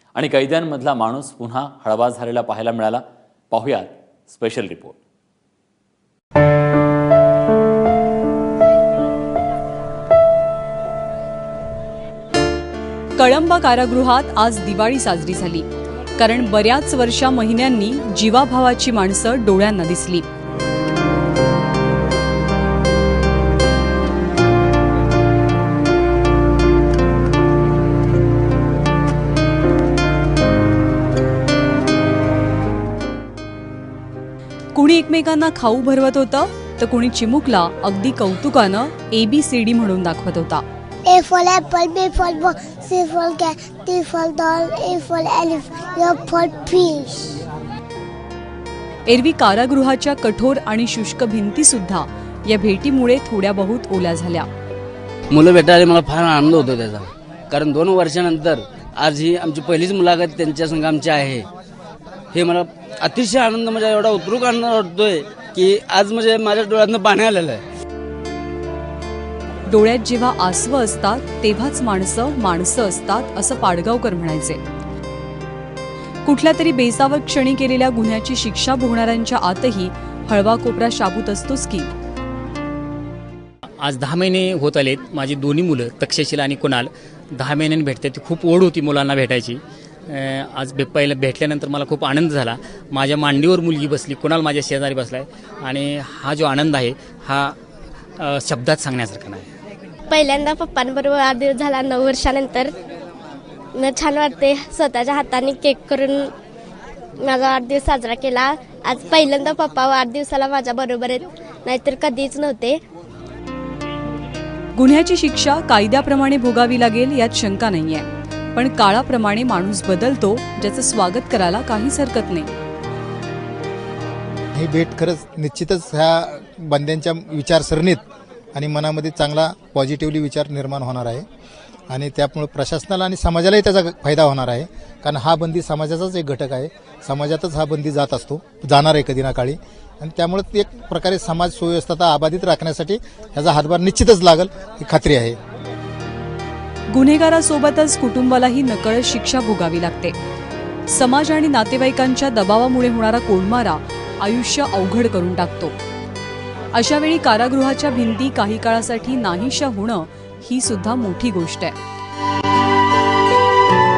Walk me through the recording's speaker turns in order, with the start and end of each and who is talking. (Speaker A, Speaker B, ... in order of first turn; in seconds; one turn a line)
Speaker A: 0.1-5.0
Speaker B: 13.2-20.3
Speaker B: 34.7-40.6
Speaker C: 41.0-47.4
Speaker B: 49.1-54.5
Speaker D: 55.3-61.5
Speaker D: 62.3-67.6
Speaker B: 69.7-74.6
Speaker B: 76.2-81.9
Speaker E: 83.8-97.6
Speaker E: 98.2-99.5
Speaker F: 100.1-102.7
Speaker F: 103.8-106.3
Speaker F: 107.2-112.8
Speaker B: 114.8-122.5
Speaker G: 124.5-131.2
Speaker G: 131.9-145.4
Speaker B: 146.9-150.2
Speaker B: 150.9-155.8
Speaker B: 156.7-161.8